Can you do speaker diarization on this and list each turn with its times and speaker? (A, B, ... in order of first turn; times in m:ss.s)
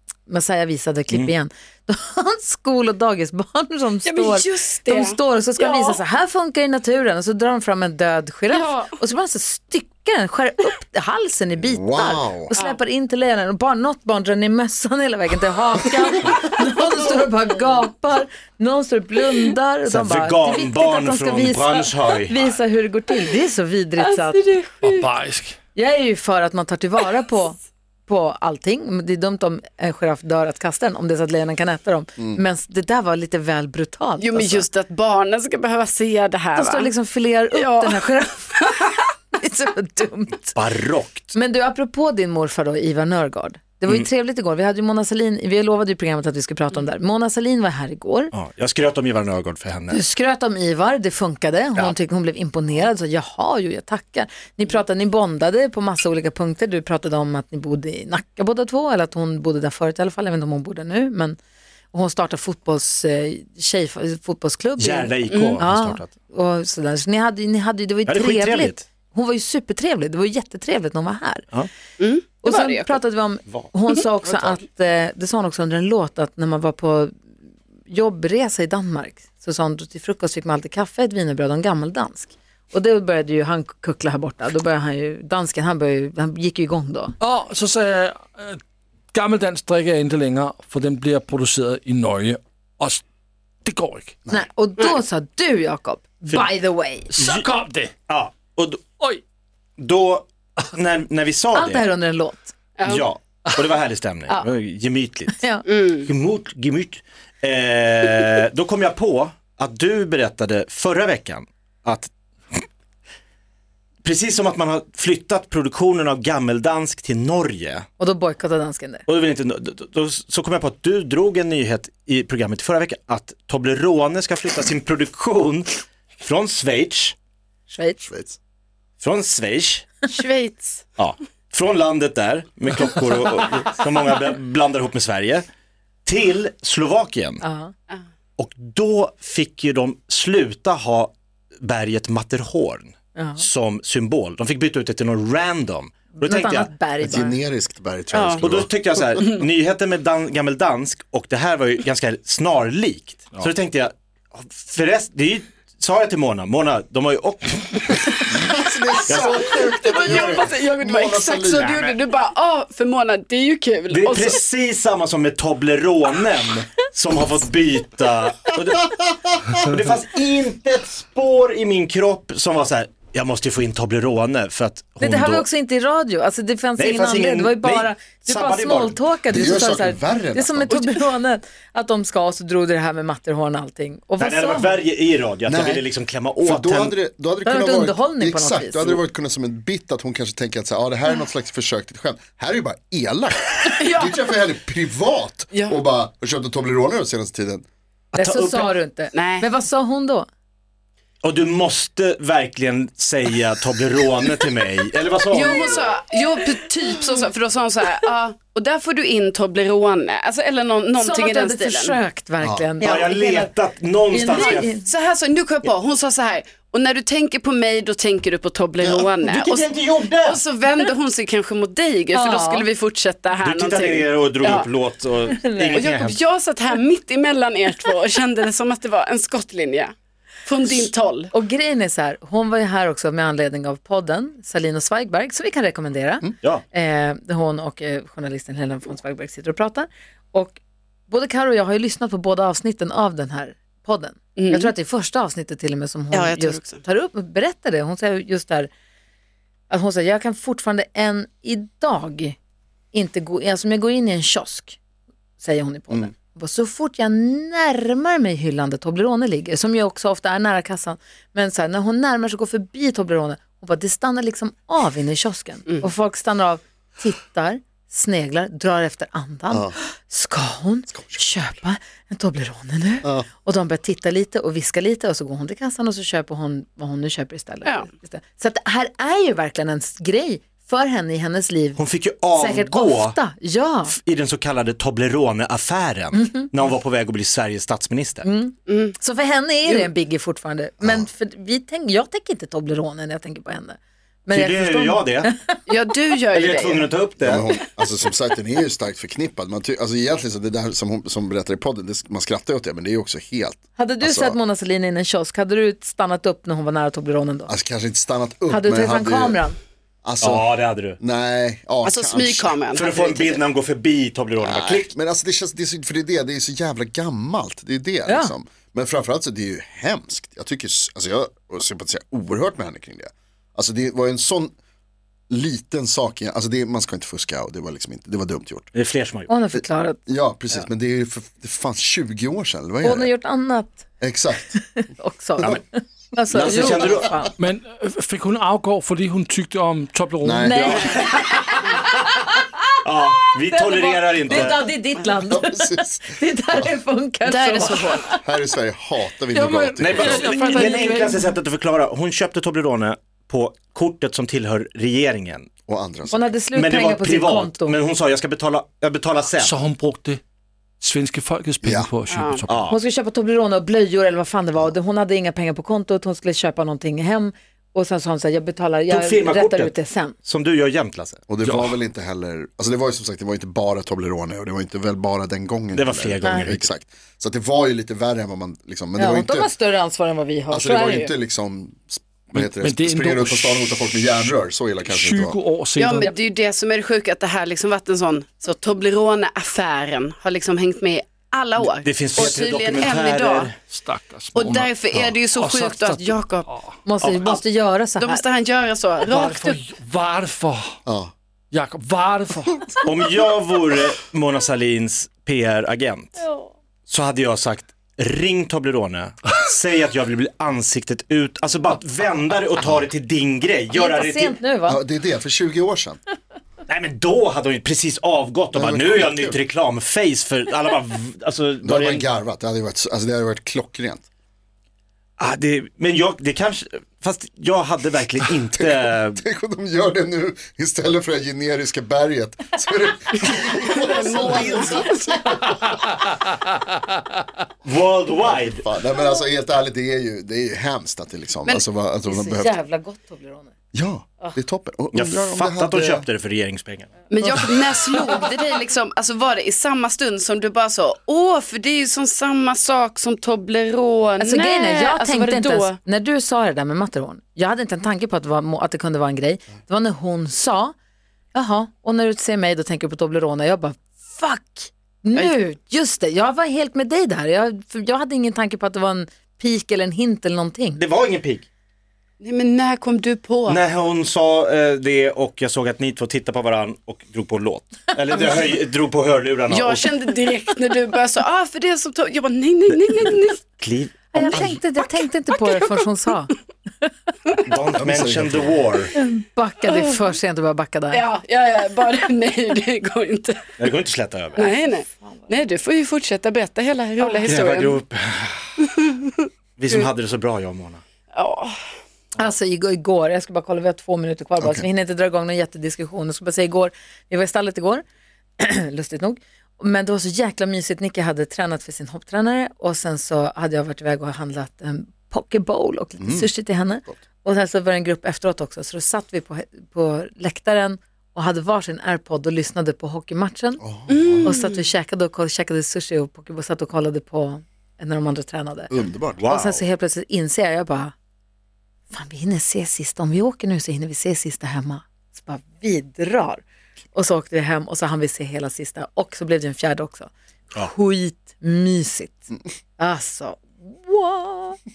0:00.3-0:24.4 A
0:04.0-0:06.0 B
0:08.5-0:08.9 B
0:11.6-0:12.5 C
0:19.8-0:22.5 D
0:24.0-0:25.1 B
0:24.8-0:25.6 E
0:25.8-0:34.6 A
0:34.2-0:36.9 B
0:36.6-0:38.6 A
0:37.5-0:38.9 B
0:39.4-0:40.6 A
0:40.5-0:41.3 D
0:41.3-0:48.3 A
0:48.3-0:50.0 D
0:49.9-1:01.4 A
1:01.9-1:11.5 A
1:04.8-1:06.1 D
1:05.3-1:05.6 B
1:08.1-1:08.8 D
1:12.0-1:13.0 B
1:12.4-1:17.1 A
1:17.9-1:27.1 A
1:27.2-1:33.0 E
1:33.6-1:34.2 E
1:34.3-1:37.1 A
1:37.1-1:37.9 E
1:37.2-1:37.5 D
1:38.1-1:38.8 D
1:39.8-1:41.8 D
1:41.5-1:42.6 A
1:42.8-1:43.0 B
1:42.8-1:45.5 D
1:45.3-1:45.6 A
1:45.7-1:46.1 B
1:46.0-1:52.6 D
1:54.0-1:57.9 D
1:58.0-1:59.0 A
1:59.1-2:07.2 D
2:07.7-2:08.0 A
2:08.0-2:08.4 C
2:09.0-2:10.0 D
2:10.1-2:10.9 B
2:11.0-2:15.4 D
2:16.1-2:17.4 D
2:17.4-2:17.7 A
2:18.4-2:26.7 D
2:23.2-2:23.4 A
2:26.2-2:27.4 A
2:27.0-2:28.8 C
2:28.1-2:28.4 B
2:28.4-2:38.1 D
2:38.4-2:41.8 C
2:39.1-2:39.6 D
2:39.3-2:44.4 B
2:41.6-2:41.9 D
2:43.9-2:55.5 D
2:55.0-3:04.8 A
2:56.8-2:59.0 D
2:59.3-3:00.8 C
3:00.7-3:01.0 B
3:04.2-3:07.0 D
3:05.5-3:05.9 C
3:06.4-3:17.6 C
3:07.4-3:09.0 A
3:13.6-3:14.3 B
3:15.5-3:15.8 B
3:18.1-3:18.7 D
3:18.2-3:20.3 A
3:19.2-3:19.5 B
3:21.2-3:25.8 D
3:25.3-3:32.0 B
3:31.0-3:33.5 A
3:32.4-3:32.7 C
3:32.8-3:34.7 D
3:32.8-3:33.1 B
3:34.1-3:34.8 A
3:34.3-3:44.7 B
3:38.8-3:40.4 D
3:42.1-3:42.6 A
3:43.4-3:46.2 D
3:45.3-3:46.0 A
3:45.8-3:49.9 B
3:50.5-3:51.3 B
3:51.3-4:08.7 A
4:04.4-4:04.7 B
4:06.1-4:06.8 B
4:09.7-4:12.4 A
4:12.9-4:14.8 A
4:15.4-4:41.8 A
4:29.5-4:29.8 C
4:31.0-4:31.2 C
4:33.0-4:33.3 C
4:41.8-4:43.2 D
4:42.3-4:44.0 A
4:43.9-4:48.3 D
4:48.2-4:55.6 A
4:48.7-4:49.0 B
4:50.8-4:51.1 C
4:54.3-4:55.3 D
4:55.7-4:56.9 B
4:56.3-4:57.4 D
4:57.2-5:04.4 C
5:03.8-5:07.5 A
5:07.5-5:09.4 C
5:08.5-5:09.6 A
5:10.0-5:12.6 C
5:10.2-5:11.0 D
5:11.8-5:13.4 B
5:12.7-5:14.9 D
5:14.4-5:24.5 C
5:18.1-5:18.3 A
5:25.3-5:28.7 C
5:28.7-5:29.3 D
5:29.3-5:30.0 A
5:29.5-5:33.1 C
5:32.8-5:33.9 A
5:34.0-5:34.6 C
5:34.5-5:37.3 A
5:36.3-5:37.3 C
5:36.3-5:37.1 D
5:37.4-5:40.9 E
5:40.2-5:40.8 C
5:40.4-5:42.4 A
5:41.1-5:41.3 D
5:42.8-5:44.7 D
5:43.5-5:48.2 A
5:45.3-5:46.7 C
5:47.2-5:48.0 B
5:48.2-5:50.3 C
5:49.3-5:51.3 E
5:49.8-5:55.5 D
5:50.2-5:51.0 B
5:55.7-5:56.3 C
5:56.1-5:57.8 A
5:56.5-5:59.6 D
5:59.4-6:00.2 E
6:00.8-6:02.8 E
6:01.6-6:02.0 C
6:02.1-6:02.5 B
6:02.5-6:02.8 D
6:02.7-6:10.2 A
6:08.9-6:11.2 D
6:11.3-6:19.5 C
6:11.4-6:11.8 E
6:15.7-6:16.7 D
6:16.2-6:16.5 A
6:19.0-6:21.1 A
6:20.5-6:25.4 C
6:20.6-6:21.1 B
6:22.3-6:23.7 E
6:24.8-6:26.1 E
6:25.8-6:33.5 B
6:31.8-6:33.5 D
6:33.6-6:36.8 E
6:34.3-6:36.5 B
6:36.8-6:38.2 A
6:37.1-6:37.4 B
6:38.0-6:39.6 B
6:39.1-6:40.8 E
6:40.9-6:41.1 C
6:41.5-6:42.9 E
6:42.8-6:46.2 D
6:46.2-6:46.5 A
6:46.9-6:54.4 D
6:52.6-6:52.9 C
6:53.7-6:54.8 A
6:54.7-6:56.0 C
6:56.7-7:02.1 D
6:58.5-6:59.4 C
7:01.6-7:04.0 C
7:05.2-7:09.2 D
7:08.5-7:15.8 C
7:13.6-7:15.0 B
7:14.2-7:14.8 D
7:17.6-7:18.6 D
7:18.4-7:22.6 C
7:22.0-7:23.5 A
7:23.7-7:26.1 C
7:24.9-7:27.1 D
7:27.1-7:35.8 B
7:34.2-7:40.7 A
7:41.3-7:50.8 A
7:50.8-7:51.4 D
7:52.2-7:53.6 B
7:53.5-7:59.9 D
7:59.5-8:03.4 B
8:02.7-8:04.6 D
8:04.1-8:06.4 A
8:07.4-8:08.9 D
8:07.8-8:08.6 C
8:08.9-8:11.0 A
8:09.7-8:10.0 B
8:10.9-8:13.7 B
8:13.6-8:14.5 D
8:14.4-8:17.8 B
8:17.3-8:18.7 D
8:18.7-8:19.9 B
8:19.6-8:20.8 D
8:21.1-8:21.6 B
8:22.2-8:27.8 A
8:24.4-8:24.6 C
8:28.4-8:43.6 A
8:36.0-8:36.3 C
8:43.6-8:44.3 C
8:43.9-8:44.6 B
8:44.2-8:50.9 A
8:48.7-8:49.2 C
8:49.2-8:49.6 D
8:51.9-9:04.6 A